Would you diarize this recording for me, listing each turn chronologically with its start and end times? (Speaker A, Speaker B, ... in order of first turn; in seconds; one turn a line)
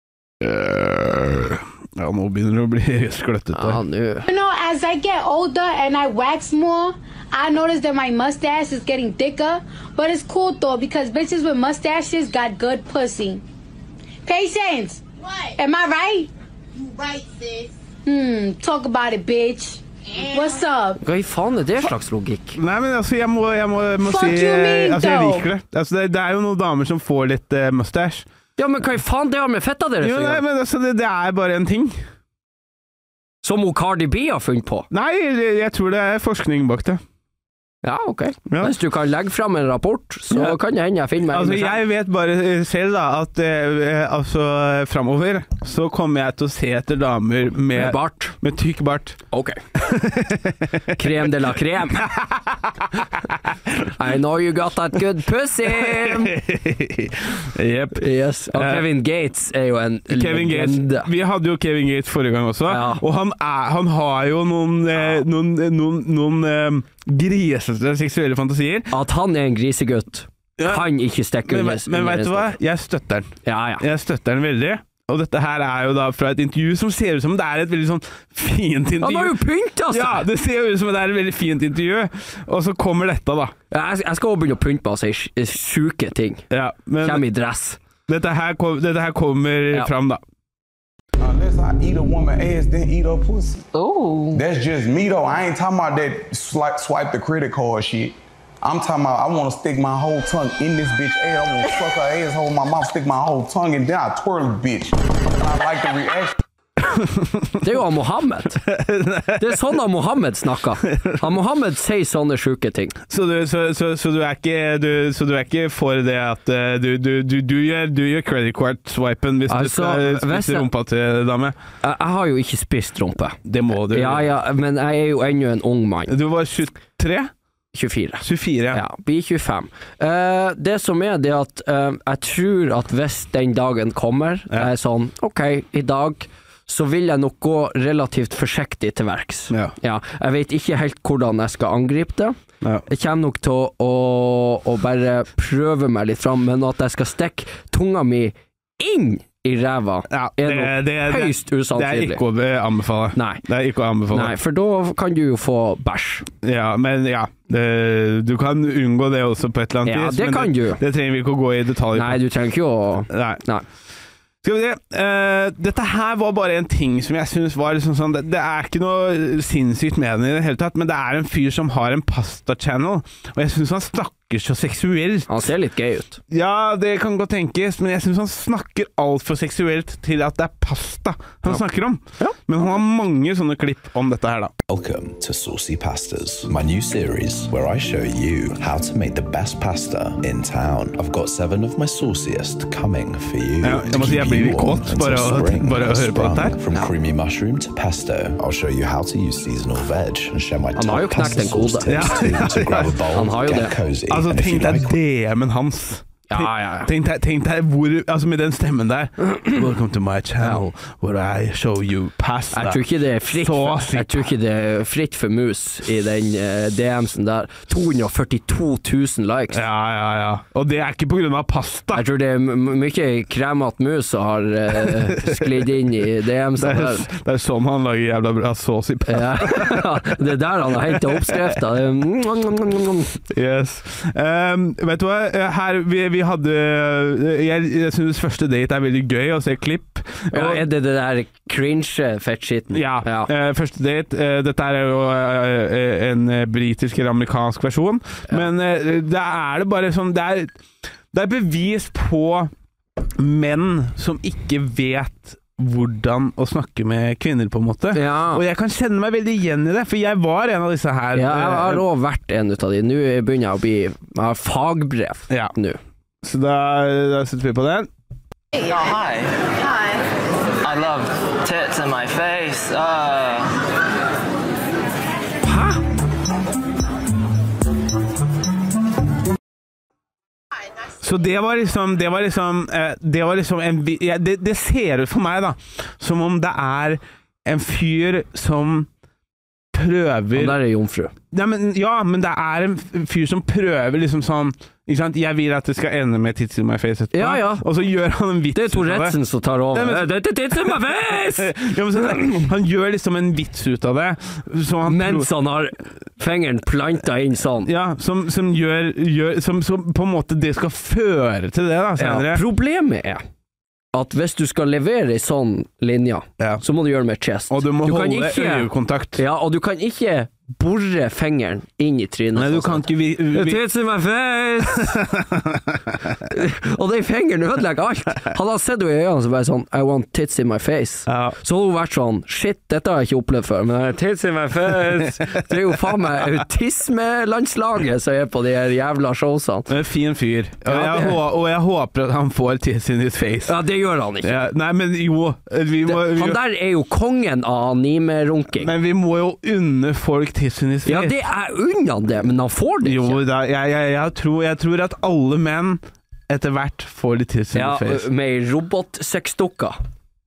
Speaker A: 0.4-3.8
Speaker B: 3.5-4.2
Speaker C: 4.3-13.4
Speaker C: 14.2-21.0
Speaker B: 21.0-22.6
Speaker A: 22.6-28.3
Speaker C: 24.0-25.5
Speaker B: 28.6-30.4
Speaker A: 30.0-32.1
Speaker B: 33.4-34.9
Speaker A: 34.9-37.0
Speaker B: 37.8-41.8
Speaker A: 38.5-38.7
Speaker A: 40.3-40.6
Speaker A: 41.3-49.2
Speaker B: 47.7-48.3
Speaker B: 49.3-49.6
Speaker A: 49.7-51.3
Speaker B: 50.9-52.1
Speaker A: 51.9-53.9
Speaker B: 54.0-56.3
Speaker A: 55.6-58.9
Speaker B: 58.0-61.1
Speaker A: 60.1-68.9
Speaker B: 62.7-63.0
Speaker B: 68.9-72.5
Speaker A: 70.6-70.9
Speaker A: 71.4-79.4
Speaker B: 73.4-73.8
Speaker B: 79.0-80.3
Speaker A: 79.9-83.5
Speaker B: 83.7-86.4
Speaker A: 86.5-87.2
Speaker B: 87.0-87.8
Speaker A: 88.1-90.2
Speaker D: 91.2-93.7
Speaker E: 93.7-94.4
Speaker D: 94.3-106.4
Speaker A: 106.9-107.6
Speaker B: 107.6-108.6
Speaker A: 108.7-109.6
Speaker B: 109.4-112.9
Speaker A: 110.9-111.2
Speaker A: 113.1-121.6
Speaker B: 119.5-120.7
Speaker B: 121.8-123.4
Speaker A: 123.5-124.3
Speaker B: 123.9-126.1
Speaker A: 126.1-127.3
Speaker B: 127.7-142.3
Speaker A: 128.2-128.8
Speaker B: 142.9-152.2
Speaker A: 150.1-154.3
Speaker B: 153.1-153.4
Speaker B: 154.1-156.3
Speaker A: 156.4-162.2
Speaker B: 159.8-160.8
Speaker B: 161.9-163.6
Speaker A: 163.1-163.4
Speaker A: 164.4-175.4
Speaker B: 175.3-176.2
Speaker A: 176.3-184.6
Speaker F: 184.7-204.9
Speaker A: 193.6-196.6
Speaker B: 200.7-201.9
Speaker A: 201.8-203.1
Speaker B: 203.1-203.7
Speaker A: 204.1-214.3
Speaker B: 206.3-206.9
Speaker B: 212.5-219.6
Speaker A: 219.5-222.1
Speaker B: 221.9-227.1
Speaker A: 224.7-225.7
Speaker A: 226.6-231.6
Speaker B: 229.1-233.2
Speaker A: 233.3-240.7
Speaker B: 240.3-243.3
Speaker A: 242.7-250.6
Speaker A: 251.1-252.5
Speaker A: 253.2-261.8
Speaker B: 257.9-258.4
Speaker B: 261.1-265.8
Speaker A: 266.2-267.9
Speaker E: 268.6-269.7
Speaker E: 270.6-273.6
Speaker B: 275.4-275.8
Speaker A: 281.0-288.9
Speaker A: 289.7-290.6
Speaker B: 290.3-291.1
Speaker A: 291.3-299.2
Speaker B: 297.1-297.6
Speaker B: 298.5-302.3
Speaker A: 299.7-305.3
Speaker B: 304.9-307.7
Speaker A: 307.6-312.4
Speaker B: 312.0-313.2
Speaker B: 313.9-325.0
Speaker A: 317.5-319.2
Speaker A: 322.3-323.6
Speaker A: 324.7-326.2
Speaker B: 326.3-339.7
Speaker A: 331.1-331.4
Speaker A: 339.7-343.6
Speaker B: 340.6-341.2
Speaker B: 343.5-344.3
Speaker A: 344.2-346.4
Speaker B: 345.9-348.7
Speaker A: 348.6-351.2
Speaker B: 350.9-353.2
Speaker A: 352.8-358.0
Speaker B: 357.5-359.8